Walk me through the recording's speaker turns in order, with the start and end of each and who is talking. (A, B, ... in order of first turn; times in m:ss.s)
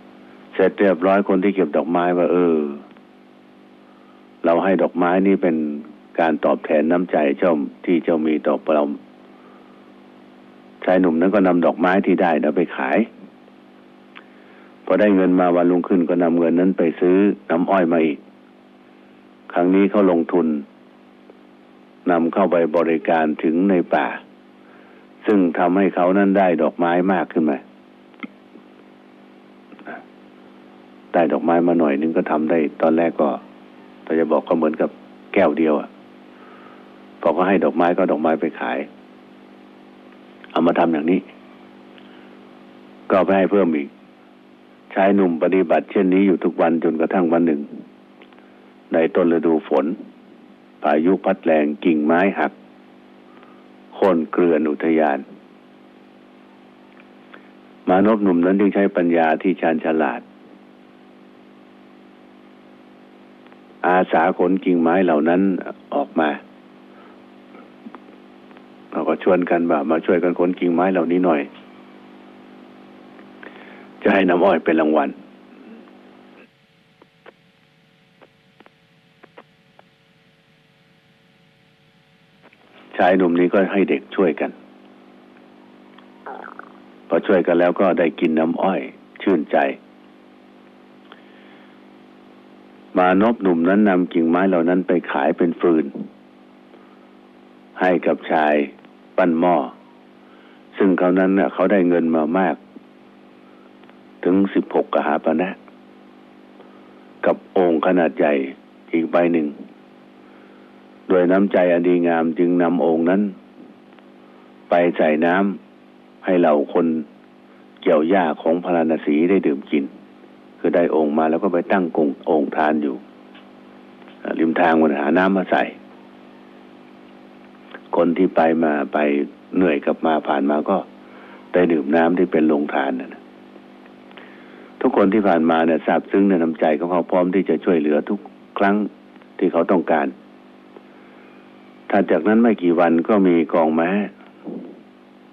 0:00.5-0:02.8 A
0:04.4-0:09.0 A
0:10.8-0:13.1 A
0:14.8-0:18.2 A
0:19.5-0:20.6 A
0:22.0-0:24.2 A
0:25.2-0:27.6 A
0:31.1-0:33.4 A
0:34.0-0:35.9 A
0:37.2-0:38.9 A
0:40.5-0:41.2 A
0:43.1-0:43.9 A
0:44.9-0:47.8 A
0:48.9-0:50.0 A
0:50.8-0:52.5 A
0:53.9-0:55.2 A
0:57.8-1:00.2 A
1:03.8-1:06.4 A
1:08.9-1:11.5 A
1:14.0-1:15.2 A
1:22.9-1:24.5 A
1:27.1-1:29.8 A
1:32.9-1:36.1 A
1:37.8-1:39.7 A
1:40.7-1:42.6 A
1:44.2-1:45.6 A
1:47.2-1:49.6 A
1:51.1-1:53.3 A
1:54.7-1:55.6 A
1:56.2-1:57.0 A
1:57.8-1:59.9 A
2:00.6-2:03.0 A
2:04.2-2:05.7 A
2:07.9-2:10.8 A
2:11.5-2:13.2 A
2:14.8-2:20.1 A
2:21.9-2:24.1 A